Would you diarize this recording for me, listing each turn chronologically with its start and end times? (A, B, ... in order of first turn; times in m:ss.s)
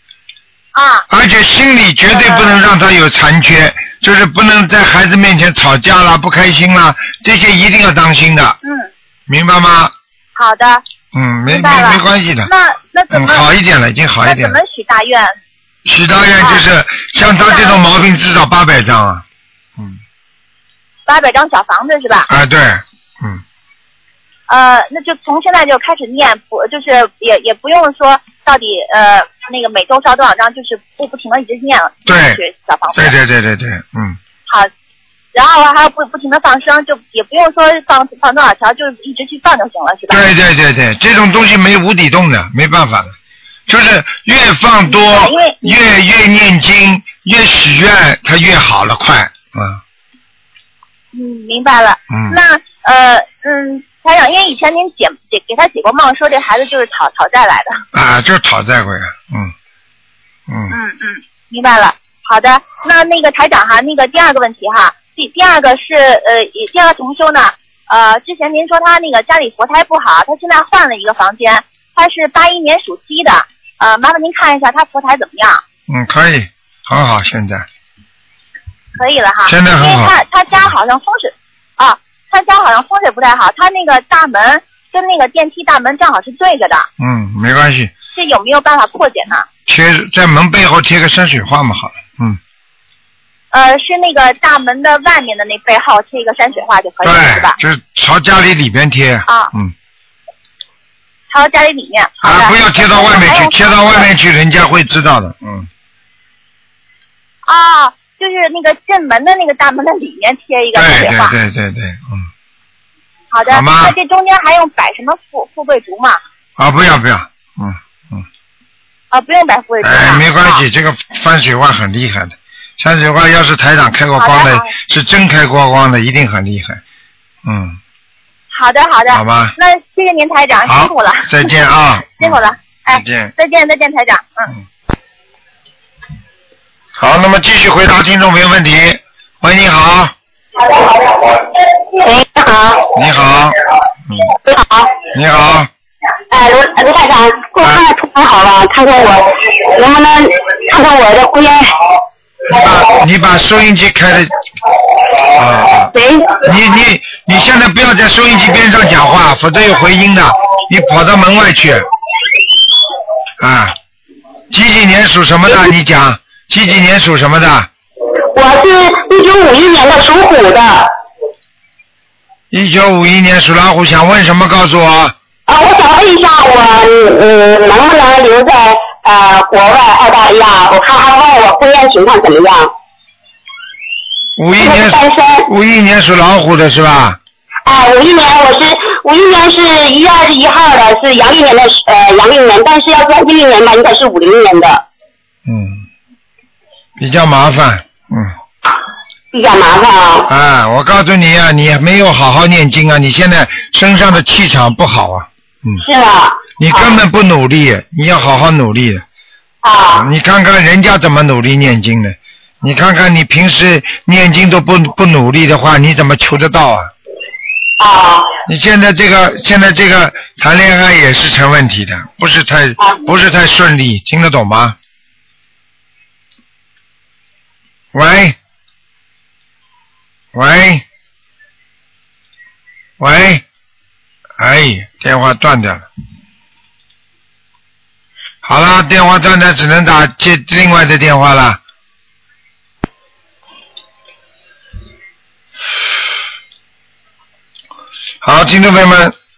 0:00.7-0:01.0 A
0:01.1-0:08.6 B
0:02.1-0:02.6 A
0:08.6-0:08.9 A
0:09.3-0:09.9 B
0:10.4-0:10.8 A
0:11.1-0:12.5 B
0:11.5-0:13.4 A
0:13.1-0:14.6 B
0:14.2-0:15.3 A
0:15.8-0:19.2 B
0:16.4-0:16.6 A
0:17.3-0:17.8 A
0:21.0-0:22.3 A
0:22.3-0:23.4 B
0:24.5-0:33.2 A
0:32.0-0:32.4 B
0:32.9-0:34.2 B
0:35.3-0:40.3 A
0:40.1-0:43.1 B
0:43.7-0:49.8 B
0:44.9-0:45.7 A
0:51.1-0:57.8 A
0:52.1-0:52.4 B
0:57.9-0:59.5 B
1:00.5-1:00.8 B
1:00.7-1:15.6 A
1:15.9-1:17.6 B
1:19.0-1:26.9 A
1:19.4-1:20.2 B
1:27.0-1:27.9 B
1:28.1-1:29.4 A
1:29.7-1:32.4 B
1:33.5-1:37.6 A
1:37.0-1:39.7 B
1:41.3-1:44.1 A
1:42.2-1:45.7 B
1:47.4-1:51.3 A
1:50.7-1:52.3 B
1:53.3-1:56.2 A
1:53.5-1:53.9 B
1:56.6-1:58.2 B
1:59.1-2:00.6 A
1:59.8-2:06.8 B
2:04.2-2:04.7 A
2:07.4-2:07.8 B
2:08.5-2:11.5 A
2:09.1-2:09.5 B
2:10.6-2:13.3 B
2:12.2-2:14.5 A
2:17.0-2:20.1 B
2:20.6-2:22.9 C
2:22.9-2:23.6 B
2:24.4-2:25.0 C
2:25.1-2:25.7 B
2:26.3-2:31.9 C
2:32.5-2:34.3 B
2:35.3-2:41.9 B
2:35.9-2:36.4 C
2:43.4-2:43.7 B
2:44.5-2:47.7 B
2:48.3-2:50.9 C
2:52.5-2:55.1 B
2:55.5-3:02.7 C
3:04.4-3:07.2 B
3:04.6-3:05.5 C
3:07.6-3:14.8 C
3:15.4-3:15.8 B
3:17.0-3:18.3 B
3:19.3-3:20.3 C
3:20.3-3:25.8 B
3:25.8-3:27.0 C
3:26.6-3:29.0 B
3:29.6-3:30.1 C
3:29.9-3:36.9 B
3:37.8-3:38.4 C
3:38.5-3:44.8 B
3:47.9-3:48.4 B
3:50.3-3:50.8 B
3:53.0-3:53.4 B
3:54.4-3:55.8 B
3:58.4-4:01.6 B
4:08.2-4:09.1 B